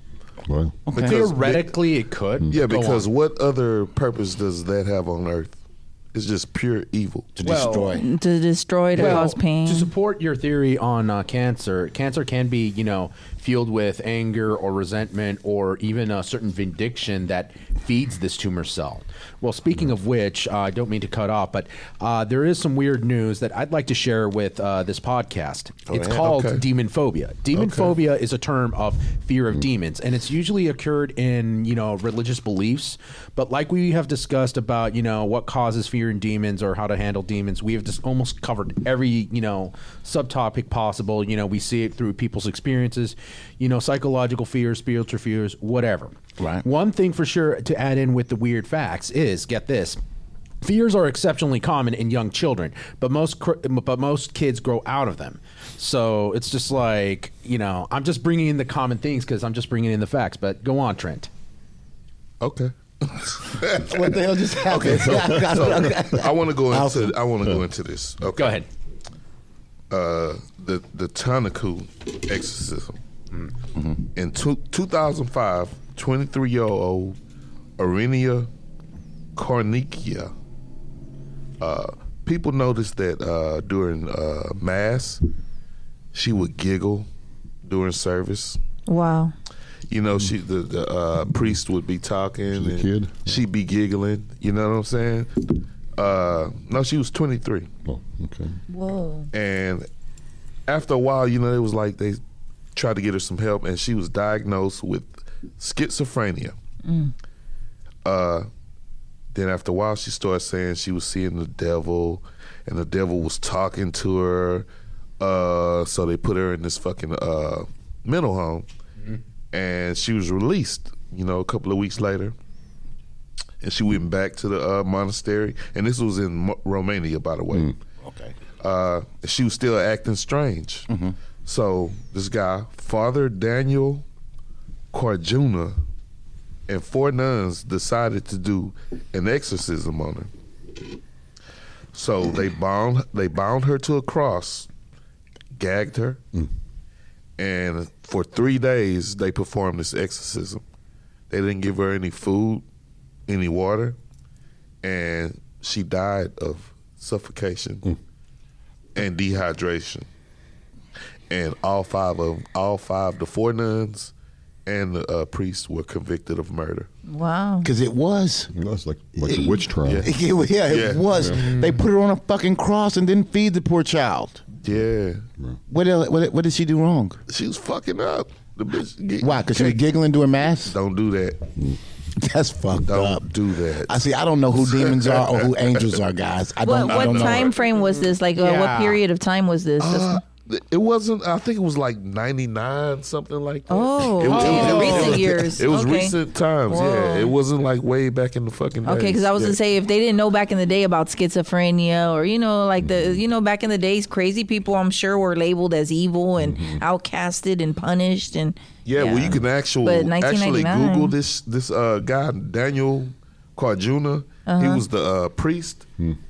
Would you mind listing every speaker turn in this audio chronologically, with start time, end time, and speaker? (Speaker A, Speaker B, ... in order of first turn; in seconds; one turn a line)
Speaker A: 0.5-0.8
Speaker B: 0.9-1.3
Speaker C: 0.9-1.7
Speaker D: 1.0-3.1
Speaker C: 2.5-5.6
Speaker C: 6.1-7.3
Speaker B: 7.4-8.1
Speaker D: 7.5-8.0
Speaker E: 7.9-9.9
Speaker D: 8.9-50.0
Speaker C: 9.0-9.2
Speaker C: 25.9-26.6
Speaker C: 27.5-27.9
Speaker B: 46.4-46.6
Speaker D: 50.6-61.3
Speaker C: 62.4-64.1
Speaker B: 63.7-67.2
Speaker C: 64.7-68.6
Speaker A: 65.1-65.5
Speaker D: 68.4-68.7
Speaker C: 69.9-73.0
Speaker B: 73.8-74.0
Speaker C: 74.2-77.2
Speaker C: 77.8-78.5
Speaker C: 79.4-80.3
Speaker C: 81.6-85.2
Speaker C: 86.1-87.1
Speaker C: 87.7-88.6
Speaker E: 88.9-89.3
Speaker C: 89.9-97.7
Speaker A: 92.5-93.4
Speaker A: 97.8-98.6
Speaker E: 98.7-99.3
Speaker C: 99.3-99.9
Speaker C: 100.7-102.2
Speaker C: 102.8-106.5
Speaker E: 106.8-107.1
Speaker C: 108.0-108.5
Speaker C: 109.3-114.7
Speaker C: 115.2-118.7
Speaker C: 119.5-122.3
Speaker C: 123.6-127.7
Speaker B: 128.0-128.3
Speaker C: 128.6-130.9
Speaker B: 130.9-131.2
Speaker C: 131.4-134.0
Speaker C: 134.9-135.8
Speaker C: 136.7-140.3
Speaker C: 141.9-144.7
Speaker C: 145.6-146.2
Speaker C: 147.4-150.6
Speaker C: 151.3-152.6
Speaker C: 153.3-154.0
Speaker C: 154.8-157.9
Speaker C: 159.0-160.1
Speaker C: 161.3-164.1
Speaker C: 164.7-166.9
Speaker E: 167.1-167.7
Speaker B: 167.6-168.5
Speaker A: 168.5-170.1
Speaker B: 169.2-174.4
Speaker C: 170.7-171.1
Speaker D: 171.3-171.8
Speaker C: 174.6-175.2
Speaker B: 175.7-177.2
Speaker C: 177.3-179.8
Speaker B: 179.2-180.8
Speaker C: 180.7-181.5
Speaker B: 182.2-187.5
Speaker C: 182.9-184.0
Speaker C: 184.6-185.8
Speaker E: 186.6-190.2
Speaker C: 186.7-187.6
Speaker D: 188.4-189.0
Speaker C: 189.8-199.6
Speaker E: 193.7-196.2
Speaker D: 194.3-195.3
Speaker E: 196.7-197.3
Speaker E: 198.8-211.1
Speaker A: 202.8-203.2
Speaker A: 206.4-206.8
Speaker C: 208.8-215.9
Speaker E: 214.5-214.8